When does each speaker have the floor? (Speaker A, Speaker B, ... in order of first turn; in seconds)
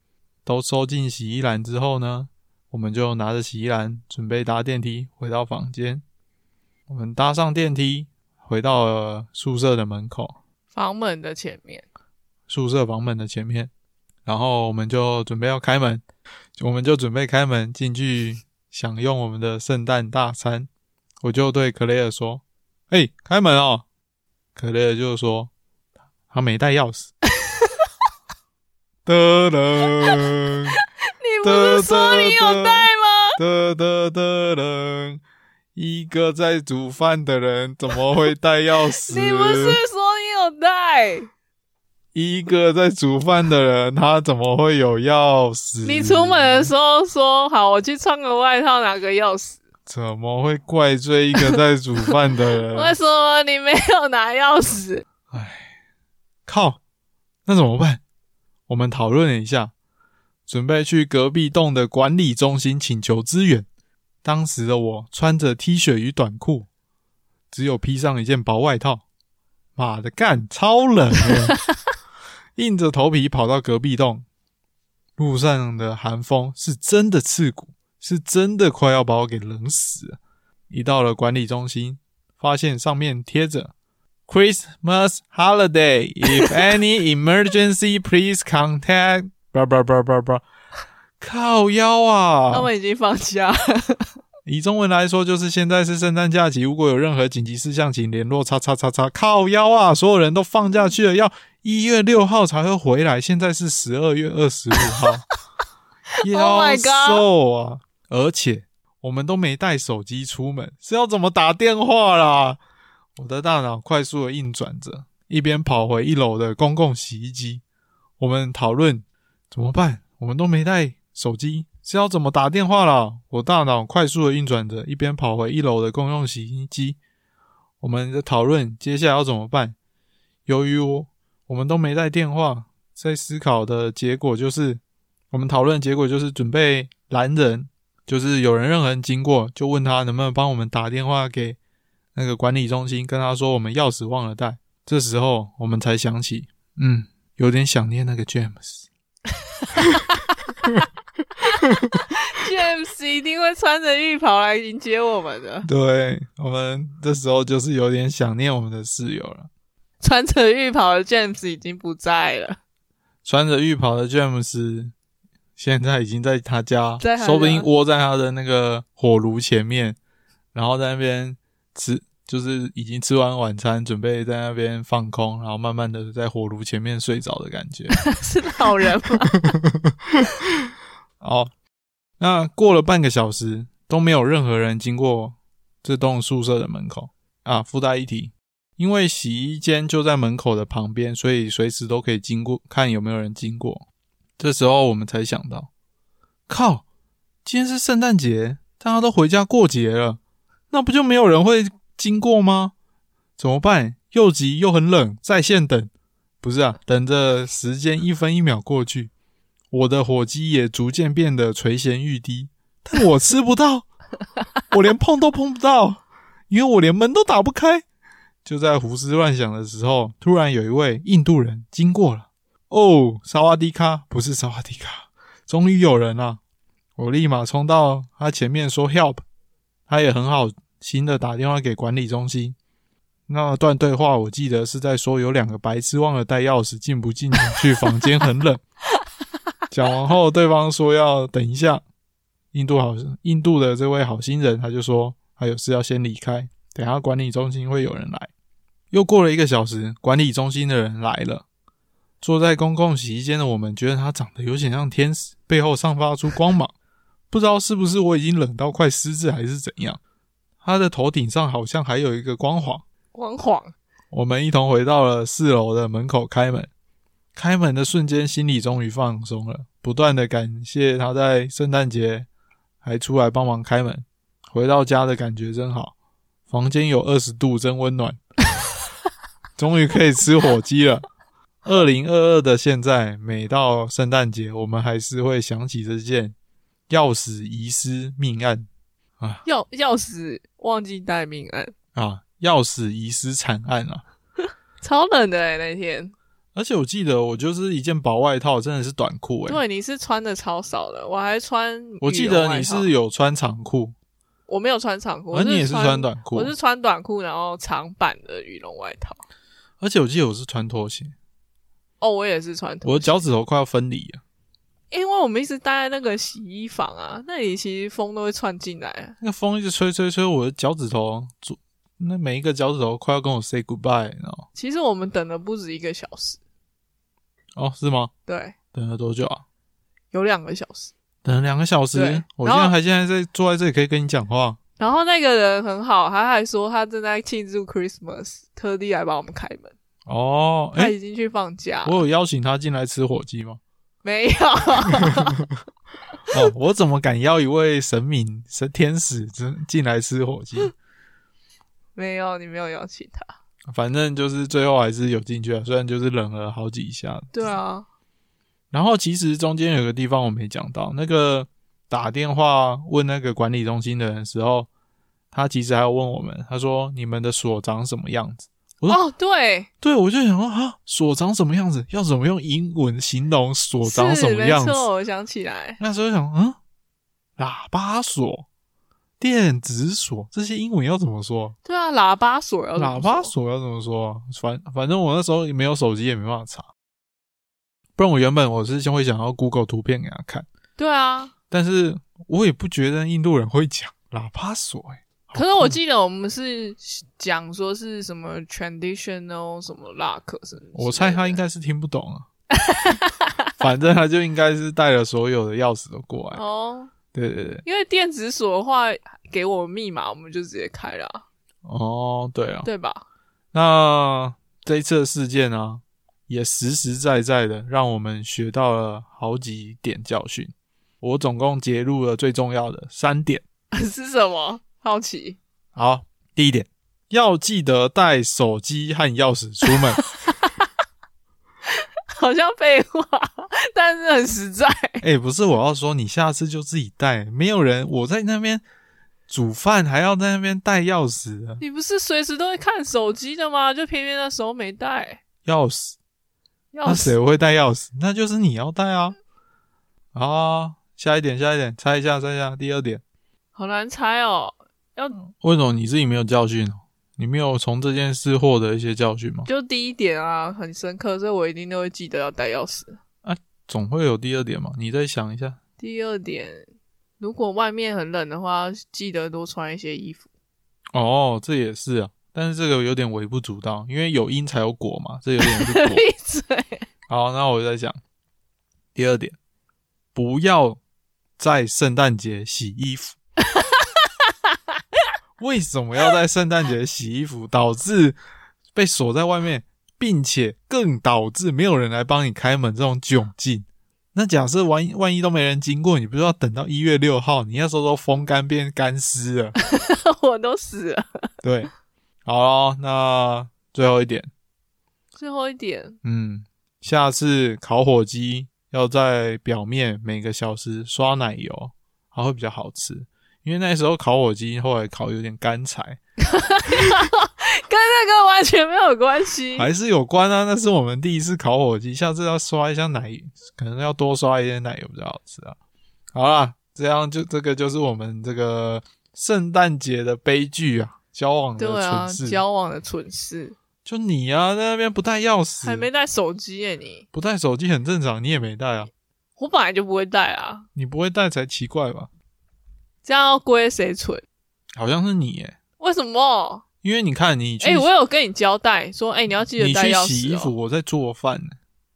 Speaker A: 0.4-6.0, 6.9-10.4, 12.5-13.7, 14.2-16.0, 16.6-20.7, 21.2-23.8, 24.6-25.5, 26.3-27.1, 29.0-30.8, 31.4-35.2, 35.8-39.8, 42.1-46.7, 49.9-53.0, 55.3-55.7, 56.5-56.8, 57.5-58.0, 58.7-59.7, 60.5-63.7, 64.2-66.7, 67.5-69.0, 69.8-71.6, 72.5-74.2, 75.2-80.2, 80.7-83.7, 84.3-90.4, 91.2-92.7, 94.5-105.2, 106.2-112.6, 113.2-117.6, 118.2-127.0, 127.8-129.8, 130.5-134.8, 135.3-141.6, 142.2-148.8, 151.6-151.9, 155.7-159.5, 163.2-164.9, 165.6-170.0, 170.5-178.0, 179.5-180.5, 181.2-181.5, 182.2-193.8, 194.4-195.7, 196.5-196.8, 197.4-200.2, 200.7-202.7, 203.4-205.9, 206.4-209.1, 209.7-213.9, 214.7-217.8, 218.4-226.4, 227.0-229.2, 229.9-232.6, 233.3-238.6, 239.7-241.8, 242.5-248.3, 248.9-251.4, 252.2-256.7, 257.3-260.0, 260.6-262.8, 264.1-266.7, 267.4-272.3, 272.8-275.9, 276.5-278.2, 279.6-281.1, 281.6-286.3, 286.9-288.7, 291.9-294.0, 296.5-299.6, 302.0-303.9, 305.3-306.5, 309.8-311.1, 312.8-314.2, 319.2-324.5, 327.6-328.1, 328.7-329.4, 331.2-334.6, 340.1-340.9, 341.8-343.6, 346.3-350.7, 353.7-357.3, 358.7-364.7, 365.3-369.0, 369.8-374.9, 375.8-376.6, 377.4-378.5, 379.2-381.5, 382.8-386.7, 388.0-390.5, 391.5-395.8, 400.8-402.3, 403.6-406.4, 407.1-407.6, 411.6-412.7, 413.5-423.4, 425.8-430.0, 435.0-438.6, 439.3-441.6, 445.5-446.0, 446.8-449.2, 450.1-453.0, 455.2-459.5, 463.2-465.6, 470.9-476.0, 477.1-478.0, 478.9-479.4, 480.1-480.8, 481.4-483.2, 485.4-488.2, 488.7-499.5, 501.4-501.7, 502.2-504.3, 506.0-516.0, 519.5-525.6, 526.1-532.4, 533.8-535.9, 537.1-538.9, 540.8-542.1, 544.8-545.6, 546.8-547.9, 549.6-551.5
Speaker B: 10.7-11.9, 31.1-33.4, 39.0-41.3, 45.8-49.6, 52.7-55.0, 92.5-94.1, 104.8-105.1, 106.2-107.2, 149.6-150.3, 151.4-155.7, 160.0-162.6, 167.0-167.7, 177.9-179.5, 263.1-263.7, 289.4-291.7, 294.8-296.1, 299.5-302.9, 304.5-309.2, 312.0-313.3, 314.9-319.2, 324.5-326.4, 328.2-328.5, 330.1-330.9, 331.9-332.8, 334.8-339.7, 340.8-342.0, 344.0-345.5, 352.0-353.3, 357.3-357.9, 368.9-369.7, 373.8-375.8, 381.6-383.3, 390.8-391.3, 395.3-401.4, 402.6-403.3, 406.3-406.9, 407.6-411.2, 412.6-413.0, 423.7-425.4, 430.2-430.6, 431.8-435.0, 441.6-445.2, 446.7-447.2, 453.5-455.2, 459.5-463.0, 465.8-466.7, 467.2-470.3, 475.4-476.8, 483.5-483.9, 499.6-501.3, 505.2-506.0, 516.2-519.7, 531.6-533.5, 535.6-537.1, 539.4-540.7, 543.0-544.2, 545.8-546.6, 547.6-550.5